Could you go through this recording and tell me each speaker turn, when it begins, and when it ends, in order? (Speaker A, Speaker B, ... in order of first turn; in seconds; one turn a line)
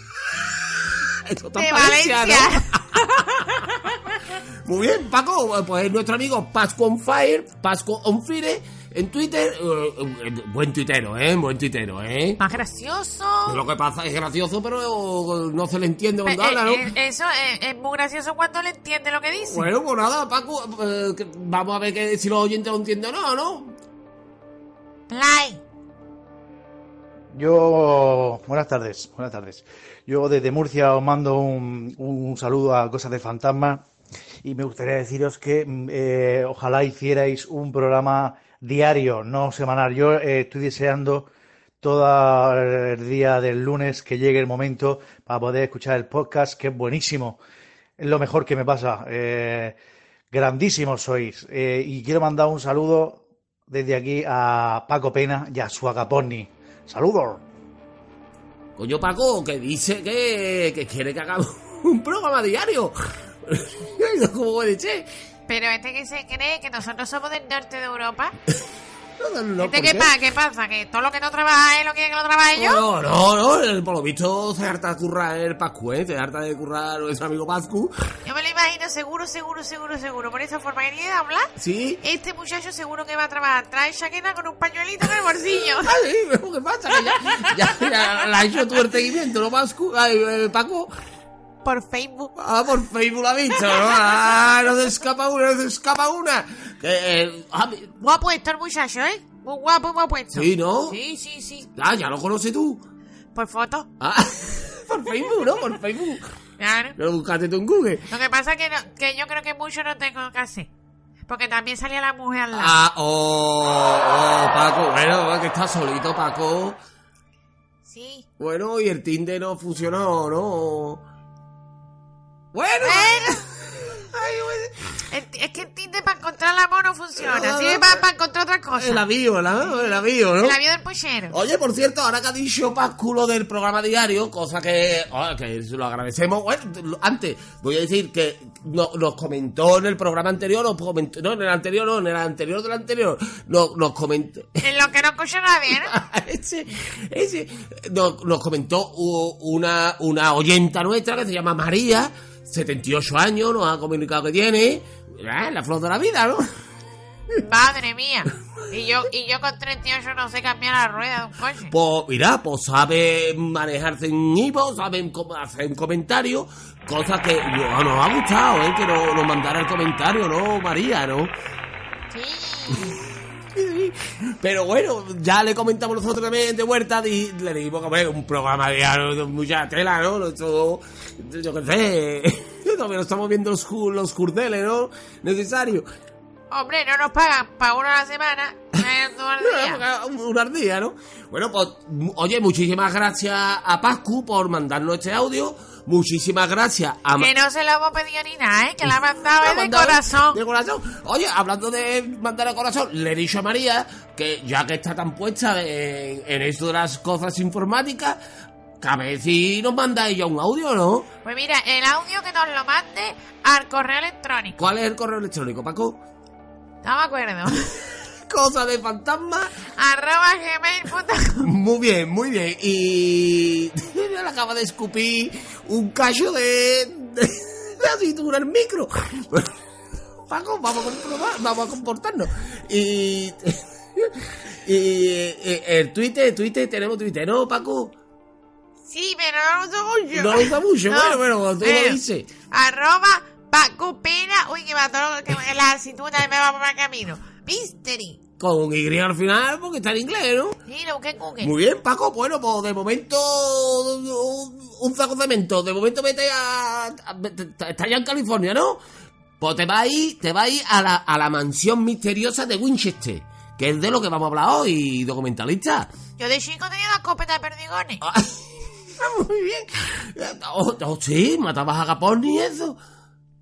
Speaker A: 0.3-3.2
Speaker B: 1.6-2.7
Speaker A: 4.7-12.4
Speaker B: 12.4-13.6
Speaker A: 13.5-16.9
Speaker B: 16.2-19.7
Speaker A: 19.5-23.8
Speaker B: 25.1-25.6
Speaker C: 27.3-33.8
Speaker C: 34.4-41.3
Speaker C: 41.8-47.4
Speaker C: 48.0-49.8
Speaker C: 50.3-57.4
Speaker A: 58.8-65.1
Speaker B: 65.5-68.3
Speaker A: 69.2-70.1
Speaker B: 69.6-72.8
Speaker A: 72.5-77.9
Speaker B: 78.3-81.5
Speaker A: 81.6-82.0
Speaker B: 82.0-86.0
Speaker A: 85.8-90.9
Speaker B: 87.2-87.6
Speaker B: 91.6-92.3
Speaker A: 92.4-98.0
Speaker B: 93.7-94.0
Speaker B: 98.0-101.7
Speaker A: 100.3-101.0
Speaker A: 101.8-102.8
Speaker B: 103.3-103.9
Speaker A: 104.0-106.3
Speaker B: 106.6-107.0
Speaker A: 107.0-108.1
Speaker B: 108.1-110.7
Speaker B: 111.3-112.7
Speaker A: 112.5-116.8
Speaker B: 117.9-118.2
Speaker A: 118.4-121.0
Speaker A: 122.5-124.8
Speaker B: 122.8-123.4
Speaker B: 125.1-129.0
Speaker A: 127.2-128.0
Speaker A: 128.8-130.6
Speaker B: 130.4-131.3
Speaker A: 131.3-144.7
Speaker B: 144.6-145.9
Speaker A: 145.8-156.5
Speaker B: 157.4-161.7
Speaker A: 161.7-171.3
Speaker B: 172.1-173.0
Speaker A: 173.6-185.9
Speaker B: 186.5-189.8
Speaker A: 189.4-197.3
Speaker B: 197.2-200.4
Speaker A: 199.4-208.2
Speaker A: 208.8-211.1
Speaker B: 211.2-214.6
Speaker A: 214.6-216.0
Speaker B: 216.8-217.8
Speaker A: 218.3-219.6
Speaker B: 219.7-221.5
Speaker A: 221.4-229.5
Speaker A: 230.3-237.9
Speaker B: 238.9-248.2
Speaker A: 240.1-242.3
Speaker A: 248.4-250.6
Speaker B: 250.7-251.5
Speaker A: 251.4-258.8
Speaker A: 259.4-265.9
Speaker B: 266.2-268.0
Speaker A: 268.0-272.8